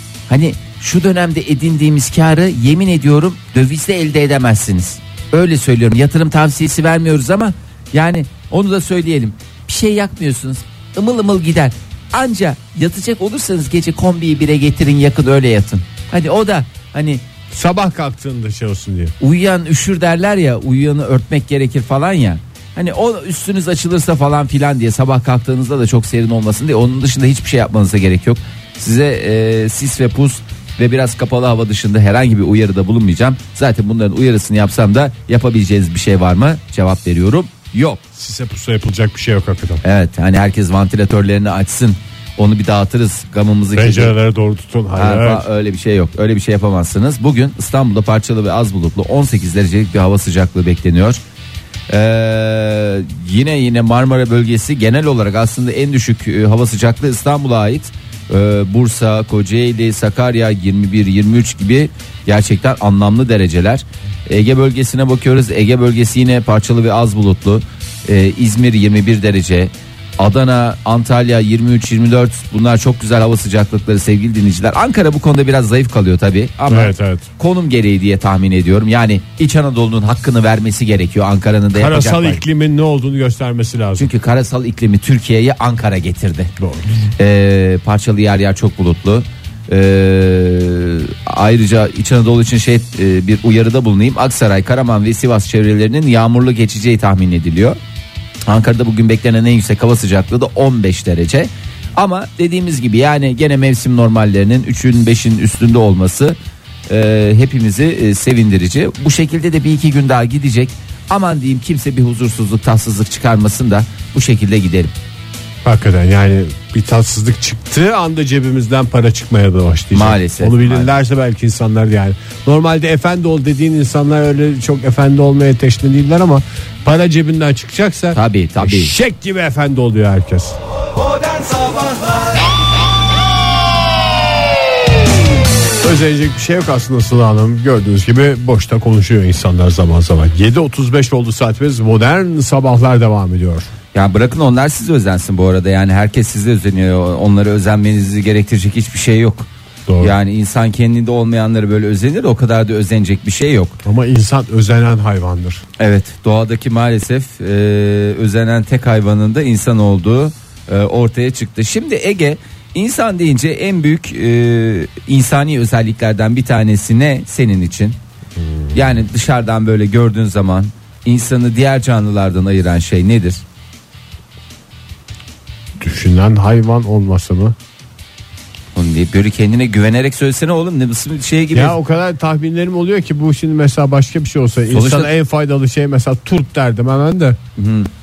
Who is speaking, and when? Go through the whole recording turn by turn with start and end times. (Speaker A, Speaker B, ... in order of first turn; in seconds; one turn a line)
Speaker A: 0.3-17.2
Speaker B: 17.5-19.1
Speaker A: 19.2-38.0
Speaker B: 38.1-39.8
Speaker A: 39.8-44.1
Speaker B: 43.8-45.5
Speaker A: 44.9-51.2
Speaker A: 51.9-82.4
Speaker B: 76.7-77.3
Speaker B: 81.7-84.1
Speaker A: 84.0-86.5
Speaker B: 86.6-87.0
Speaker A: 87.2-97.8
Speaker A: 98.5-106.4
Speaker A: 106.9-114.9
Speaker B: 115.7-130.6
Speaker A: 119.9-120.9
Speaker A: 128.1-128.9
Speaker B: 135.8-143.7
Speaker A: 143.9-149.5
Speaker B: 149.9-150.2
Speaker A: 150.0-153.8
Speaker B: 153.8-155.6
Speaker A: 155.8-168.0
Speaker B: 168.4-168.7
Speaker A: 168.7-173.4
Speaker B: 175.8-177.6
Speaker A: 178.8-181.8
Speaker B: 181.5-187.4
Speaker A: 184.7-185.1
Speaker A: 187.6-187.9